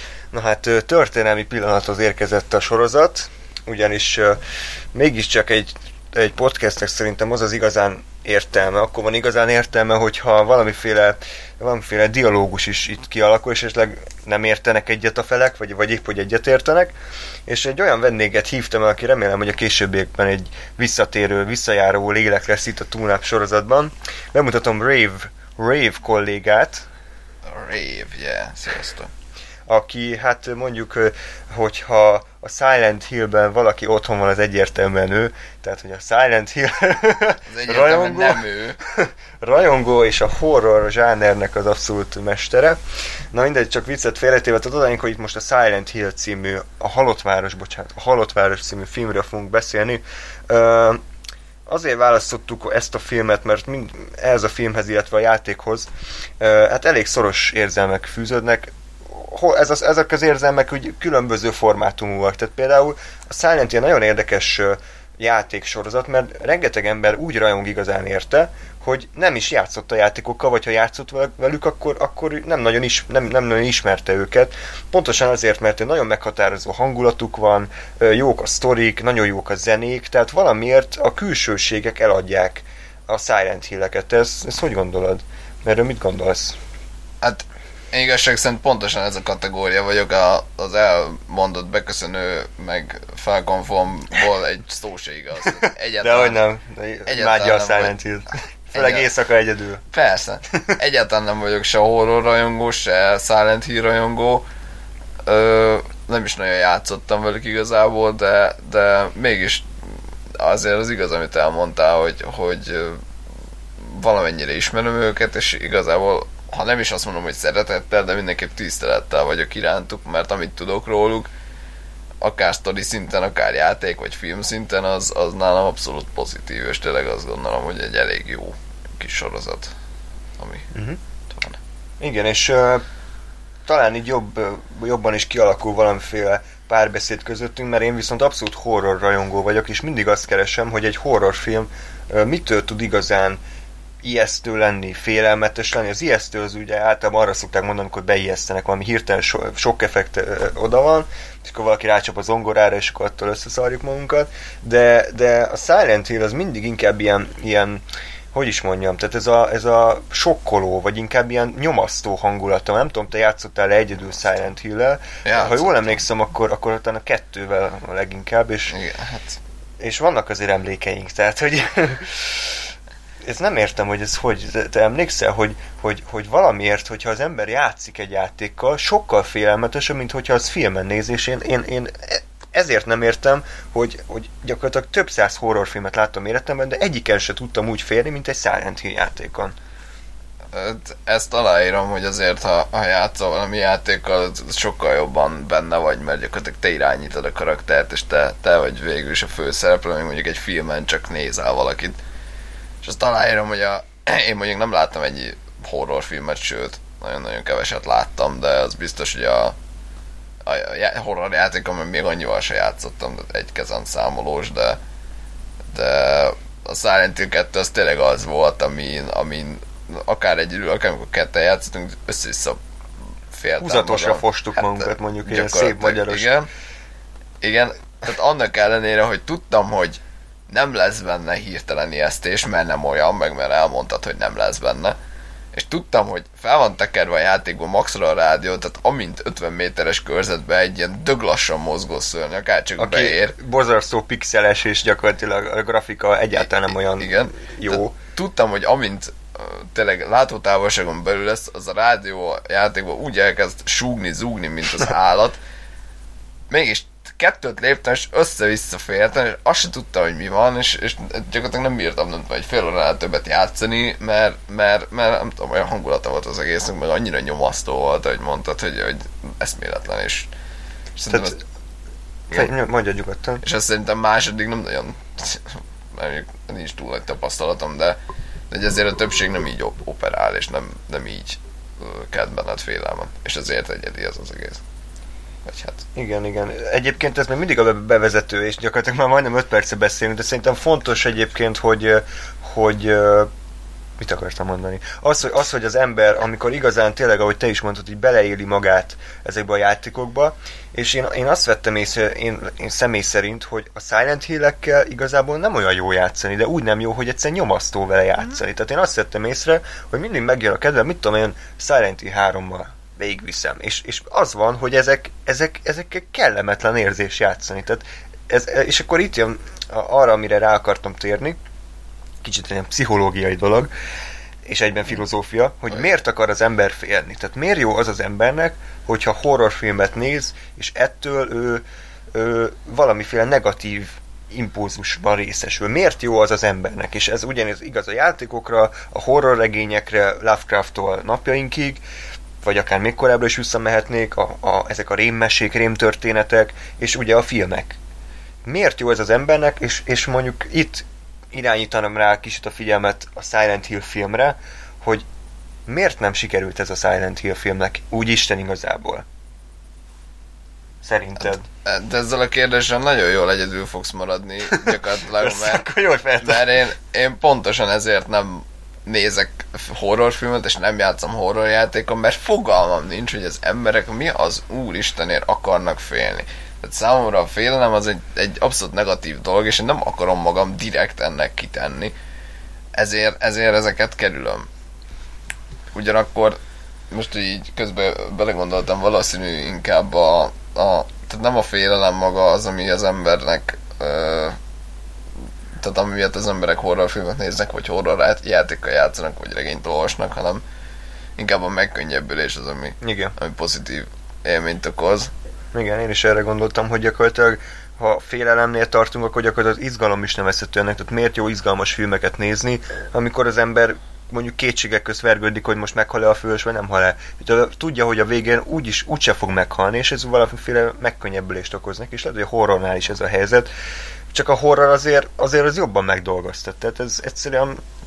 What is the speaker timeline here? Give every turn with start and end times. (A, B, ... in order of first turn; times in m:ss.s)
0:00.3-0:04.4 A
0:04.9-0:17.0 A
0:17.5-0:26.9 A
0:27.4-0:29.1 B
0:29.7-0:42.8 A
0:37.5-0:38.8 B
0:43.3-0:51.0 A
0:51.7-0:55.9 A
0:56.4-1:26.6 A
1:27.2-1:36.4 B
1:35.5-1:39.8 A
1:37.1-1:38.0 B
1:38.7-1:39.1 B
1:39.9-1:44.5 B
1:45.2-1:53.0 B
1:53.8-2:01.3 B
2:02.2-2:09.7 B
2:10.4-2:10.7 B
2:10.7-2:11.0 A
2:11.3-2:11.6 B
2:12.0-2:12.8 A
2:13.6-2:23.4 A
2:24.0-2:37.8 A
2:38.3-2:48.8 A
2:45.2-2:46.0 B
2:48.7-2:49.4 B
2:49.8-2:52.6 A
2:53.2-3:09.6 A
3:10.5-3:22.0 B
3:22.8-3:29.6 B
3:30.4-3:34.8 B
3:35.7-3:42.6 B
3:43.3-3:46.5 B
3:43.6-3:46.3 A
3:47.4-3:55.0 B
3:55.5-4:03.4 B
4:02.8-4:08.0 A
4:06.4-4:15.4 B
4:16.5-4:30.3 B
4:31.0-4:31.4 B
4:31.1-4:31.4 A
4:32.3-4:33.4 A
4:33.4-4:38.0 B
4:38.5-4:44.6 B
4:45.4-4:45.8 B
4:46.0-4:53.3 A
4:54.0-5:21.4 A
5:22.2-5:23.7 A
5:24.4-5:41.8 A
5:42.4-5:47.8 A
5:48.4-5:55.0 A
5:55.7-5:59.0 A
6:00.8-6:01.4 A
6:01.2-6:05.7 B
6:04.5-6:06.6 A
6:06.2-6:21.9 B
6:22.8-6:24.5 B
6:25.7-6:26.4 B
6:26.9-6:34.4 B
6:35.6-6:40.4 B
6:41.2-6:45.1 B
6:42.8-6:43.2 A
6:45.5-7:03.5 A
7:04.1-7:07.6 A